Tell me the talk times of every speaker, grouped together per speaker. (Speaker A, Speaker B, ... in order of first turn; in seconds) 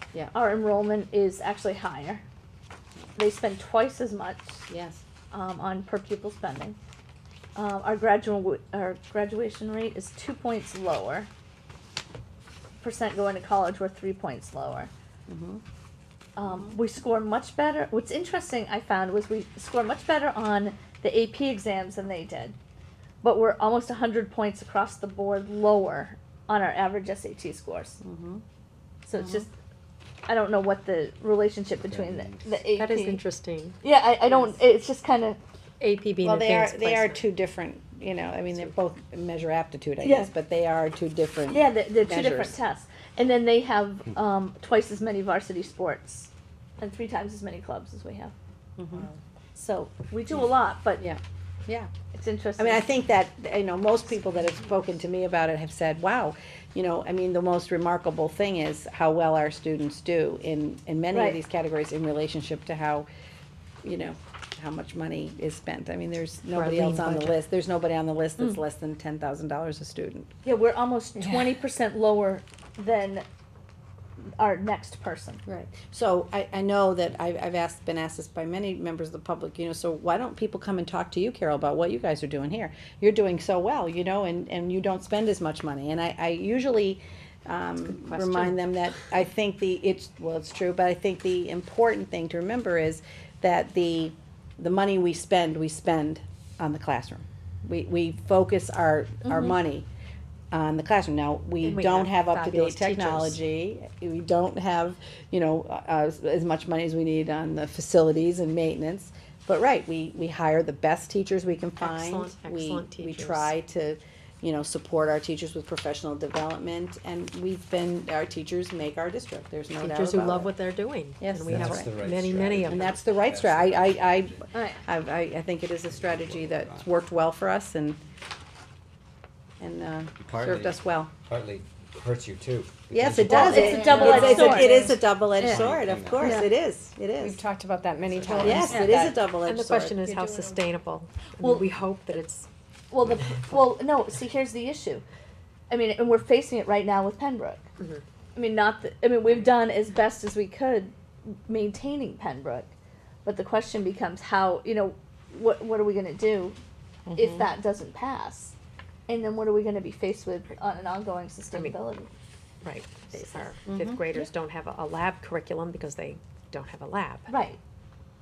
Speaker A: 0.3-2.2, 3.2-4.6, 5.3-6.8, 7.5-11.3, 12.8-14.9, 16.4-22.6, 23.2-28.0, 29.1-29.5, 30.3-33.2, 33.8-35.4, 40.0-40.3, 41.5-48.3, 49.5-51.0, 52.1-52.9, 61.1-61.4, 70.5-73.2, 74.2-75.4, 124.5-124.8, 133.3-134.9, 136.2-136.5, 138.6-139.0, 142.9-145.0, 145.7-147.7, 148.3-152.7, 153.2-156.6, 157.2-158.6, 159.1-162.1, 163.2-163.4, 167.3-167.6
Speaker B: 4.7-5.0, 15.3-15.6, 16.4-16.8, 28.0-28.4, 36.2-42.6, 48.8-49.1, 51.0-51.9, 52.6-63.1, 63.8-70.3, 75.5-99.9, 100.5-120.5, 121.2-121.9, 122.7-128.0, 129.6-131.1, 132.9-137.4, 138.4-140.0, 157.1-157.5, 163.7-164.0
Speaker C: 31.8-32.5, 121.5-124.5, 125.8-126.9, 130.2-133.8, 135.4-136.4, 138.1-138.8
Speaker D: 32.7-33.8, 35.8-37.3, 66.5-67.4, 87.9-88.6, 101.6-103.4, 111.8-113.5, 119.8-123.0, 133.5-134.5, 139.4-142.5, 162.6-167.3
Speaker E: 133.7-134.9, 137.2-139.2, 140.1-140.6